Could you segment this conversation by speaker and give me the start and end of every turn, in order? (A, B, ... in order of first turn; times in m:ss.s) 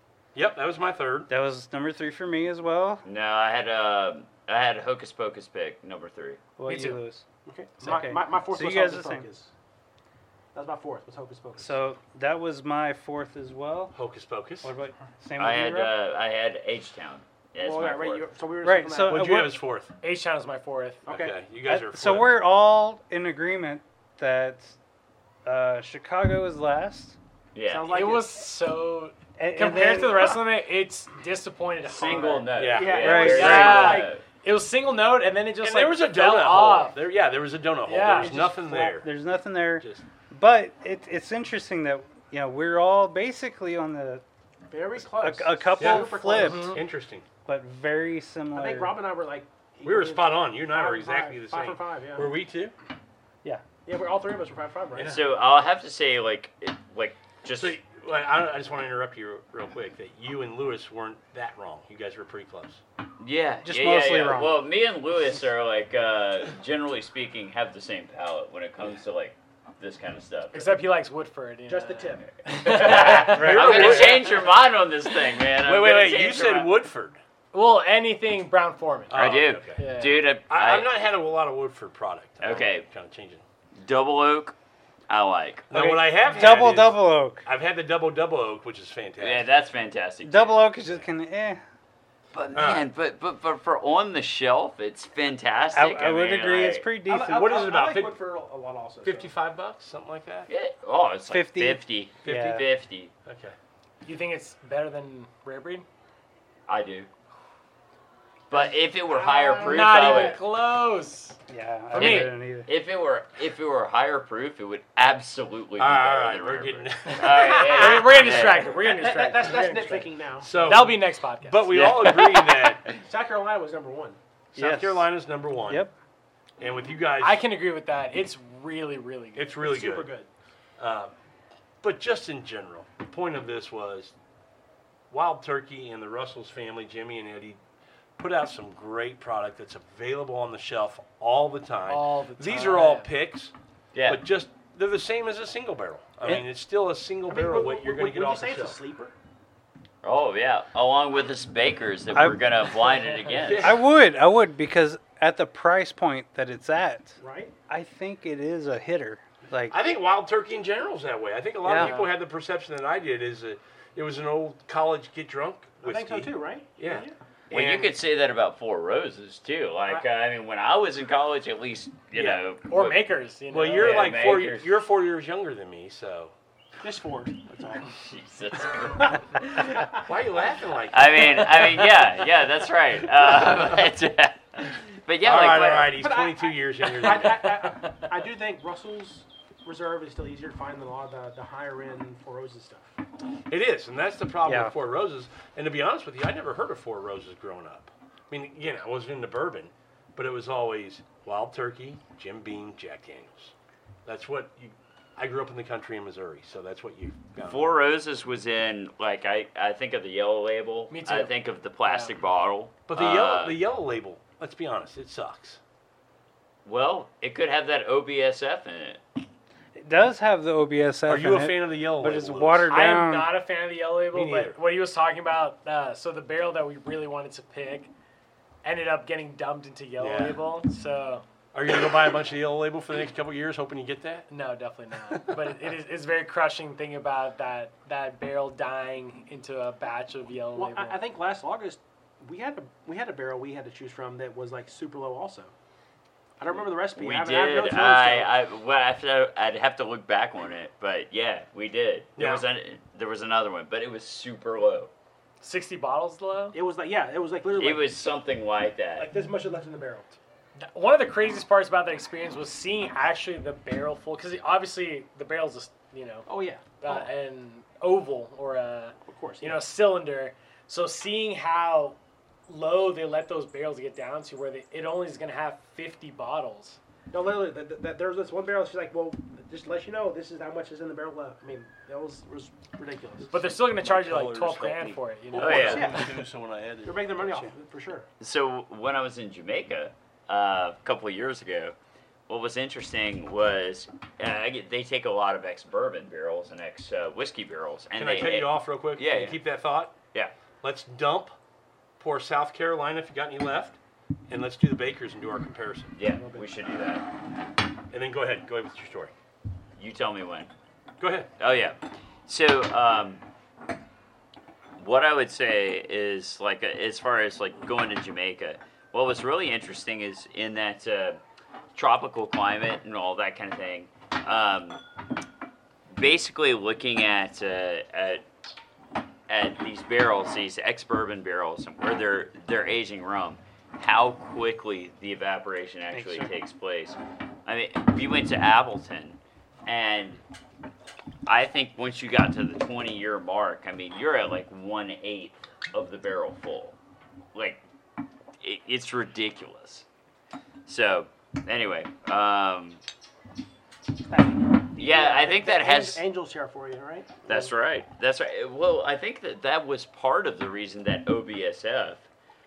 0:00.3-0:01.3 A
0:01.3-0:03.0 B
0:03.0-0:06.4 C
0:06.6-0:07.2 B
0:06.7-0:07.0 D
0:07.4-0:09.5 E
0:07.8-0:09.3 B
0:10.5-0:11.8 E
0:11.6-0:14.0 B
0:13.9-0:14.7 A
0:14.6-0:15.9 B
0:15.4-0:18.3 C
0:17.6-0:19.2 E
0:18.6-0:19.6 B
0:19.0-0:19.9 A
0:20.0-0:21.0 D
0:21.1-0:21.4 E
0:21.1-0:22.4 A
0:21.6-0:24.8 B
0:25.4-0:27.2 B
0:27.5-0:27.9 C
0:27.6-0:28.3 E
0:27.9-0:32.5 D
0:29.4-0:30.4 B
0:31.8-0:34.2 C
0:32.2-0:34.1 E
0:32.6-0:34.0 A
0:33.0-0:33.9 B
0:33.2-0:37.0 D
0:35.6-0:39.1 A
0:37.8-0:38.4 D
0:38.1-0:39.0 E
0:39.0-0:44.2 B
0:44.7-0:46.8 E
0:45.0-0:46.8 B
0:45.8-0:47.3 A
0:46.4-0:46.8 D
0:47.4-0:49.0 B
0:48.5-0:52.4 E
0:49.8-0:52.7 A
0:53.8-0:55.2 E
0:55.0-0:55.2 A
0:55.1-0:57.8 C
0:57.6-1:02.8 A
1:03.2-1:10.7 C
1:03.6-1:04.6 B
1:10.5-1:14.4 D
1:11.7-1:12.3 E
1:12.4-1:16.7 C
1:12.9-1:14.4 A
1:13.2-1:14.0 B
1:15.6-1:17.2 A
1:17.5-1:20.2 D
1:19.1-1:19.9 A
1:19.1-1:20.9 C
1:20.5-1:23.4 A
1:22.4-1:22.8 C
1:23.8-1:24.6 C
1:25.1-1:26.0 C
1:25.7-1:29.4 A
1:25.7-1:27.4 B
1:29.2-1:30.9 C
1:30.2-1:31.6 B
1:32.3-1:36.9 C
1:32.5-1:32.8 A
1:35.7-1:37.5 B
1:37.0-1:39.3 E
1:37.3-1:38.2 A
1:39.0-1:40.5 A
1:40.5-1:43.1 C
1:41.3-1:42.6 B
1:42.2-1:42.6 A
1:43.3-1:43.6 A
1:44.1-1:45.8 D
1:46.7-1:47.1 C
1:48.5-1:50.4 C
1:49.2-1:49.8 E
1:49.6-1:51.4 D
1:51.5-1:52.7 B
1:51.9-1:58.7 C
1:51.9-1:52.3 D
1:55.8-1:58.5 A
1:57.3-2:02.1 D
1:58.8-2:00.8 E
2:00.4-2:02.9 A
2:01.7-2:02.2 C
2:02.9-2:04.2 E
2:04.5-2:05.9 A
2:04.6-2:05.1 B
2:05.6-2:05.9 B
2:06.6-2:07.4 A
2:07.2-2:09.5 D
2:09.4-2:10.1 A
2:09.6-2:10.3 E
2:10.8-2:11.1 A
2:11.8-2:14.2 A
2:15.1-2:17.6 A
2:18.2-2:23.5 A
2:21.9-2:23.1 D
2:23.9-2:24.2 C
2:24.1-2:28.8 A
2:27.3-2:29.1 E
2:30.0-2:33.8 C
2:32.1-2:32.4 B
2:33.3-2:33.9 A
2:33.6-2:39.8 B
2:37.2-2:37.5 E
2:39.7-2:47.9 A
2:41.6-2:42.0 B
2:41.8-2:42.1 D
2:45.8-2:47.1 E
2:47.5-2:53.0 C
2:52.2-2:52.4 A
2:52.7-2:54.1 D
2:53.5-2:56.3 A
2:53.8-2:54.7 C
2:56.8-2:57.9 E
2:57.8-3:00.0 C
2:59.9-3:02.0 A
3:00.9-3:05.9 C
3:05.2-3:07.6 A
3:05.8-3:13.0 E
3:13.5-3:23.5 A
3:14.4-3:14.7 B
3:24.1-3:27.7 A
3:27.4-3:33.6 C
3:30.9-3:31.3 D
3:31.8-3:32.1 D
3:32.9-3:35.6 A
3:36.6-3:39.0 C
3:39.8-3:43.3 B
3:41.1-3:42.8 A
3:42.7-3:47.9 D
3:44.1-3:44.6 A
3:48.6-3:51.2 D
3:50.0-3:50.4 A
3:51.5-3:54.3 A
3:54.3-4:01.0 D
4:00.5-4:05.5 E
4:06.4-4:08.3 E
4:06.8-4:14.9 C
4:12.2-4:12.4 A
4:15.4-4:16.6 D
4:16.5-4:18.0 E
4:17.6-4:19.1 C
4:19.0-4:20.1 E
4:20.6-4:32.0 D
4:26.3-4:27.1 E
4:29.1-4:29.6 E
4:32.5-4:36.8 D
4:37.1-4:43.5 E
4:43.3-4:45.7 D
4:43.7-4:47.4 A
4:45.4-4:46.1 C
4:45.5-4:46.1 E
4:46.8-4:48.1 E
4:48.2-4:51.7 C
4:52.3-4:59.4 C
4:58.0-5:00.0 A
5:00.6-5:01.4 A
5:02.0-5:03.8 A
5:04.3-5:05.9 A
5:05.9-5:07.1 C
5:06.1-5:06.5 E
5:07.9-5:09.1 A
5:09.8-5:10.5 C
5:11.0-5:11.3 A
5:11.4-5:13.2 C
5:14.8-5:21.2 C
5:21.7-5:24.8 C
5:25.9-5:28.2 C
5:29.3-5:40.2 C
5:35.9-5:36.3 B
5:41.3-5:46.8 C
5:47.3-5:47.6 C
5:48.4-5:49.8 C
5:50.7-5:52.8 C
5:54.1-5:57.5 E
5:54.7-5:56.0 C
5:57.3-6:02.0 C